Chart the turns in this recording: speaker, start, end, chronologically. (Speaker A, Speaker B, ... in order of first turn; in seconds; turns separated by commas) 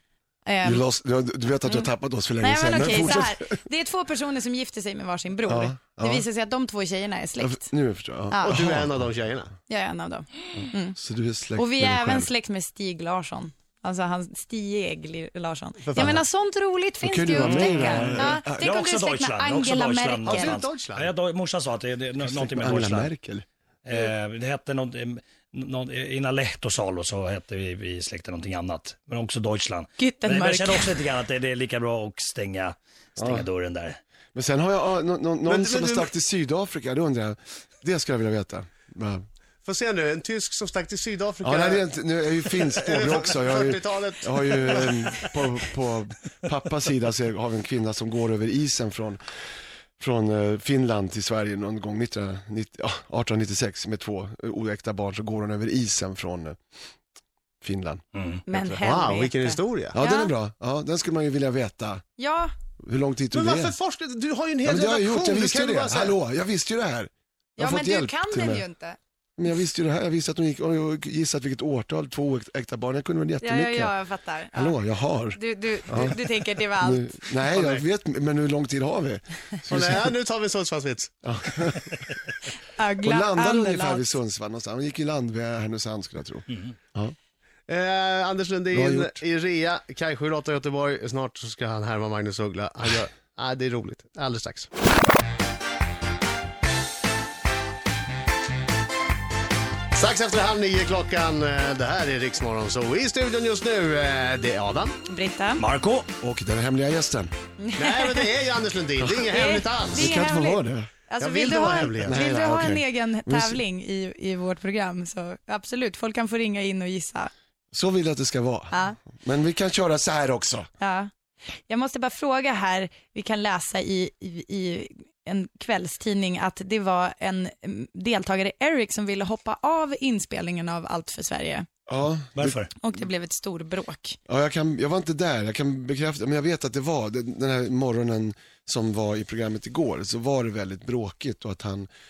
Speaker A: 0.5-0.8, Speaker B: 0.6-3.6, Speaker A: 2.4-7.6, Speaker B: 5.5-6.3, Speaker B: 7.4-9.1, Speaker C: 8.4-9.5, Speaker A: 9.7-10.9, Speaker B: 10.6-12.3, Speaker A: 11.6-20.4, Speaker C: 15.8-16.2, Speaker B: 17.0-18.8, Speaker D: 17.3-23.1, Speaker C: 20.2-21.1, Speaker B: 22.2-23.4, Speaker D: 23.8-34.0, Speaker A: 30.0-30.8, Speaker B: 33.2-33.5, Speaker B: 34.3-39.2, Speaker C: 35.5-36.1, Speaker C: 39.6-41.8, Speaker B: 41.4-49.2, Speaker C: 42.5-45.3, Speaker B: 50.0-56.6, Speaker B: 57.6-59.0, Speaker D: 58.1-58.4, Speaker A: 58.5-59.5, Speaker C: 58.8-60.0, Speaker B: 59.9-62.0, Speaker A: 62.2-62.5, Speaker B: 62.8-63.7, Speaker C: 63.3-66.2, Speaker B: 64.6-68.7, Speaker A: 67.6-69.0, Speaker B: 69.4-74.0, Speaker A: 73.4-74.7, Speaker B: 74.5-80.1, Speaker A: 75.3-76.9, Speaker C: 77.5-77.8, Speaker C: 79.7-81.2, Speaker B: 81.2-82.0, Speaker A: 82.8-84.0, Speaker B: 83.0-87.1, Speaker C: 87.7-94.7, Speaker B: 88.7-89.2, Speaker C: 99.9-105.0, Speaker A: 105.1-105.6, Speaker D: 105.6-106.1, Speaker B: 106.2-107.3, Speaker A: 107.6-108.2, Speaker C: 107.8-110.1, Speaker B: 109.0-110.9, Speaker A: 110.1-117.3, Speaker C: 111.2-112.4, Speaker B: 111.9-113.6, Speaker B: 117.7-120.7, Speaker A: 120.8-121.1, Speaker A: 121.7-131.6, Speaker B: 131.9-132.7, Speaker D: 132.3-132.7, Speaker A: 132.8-134.2, Speaker B: 134.3-141.9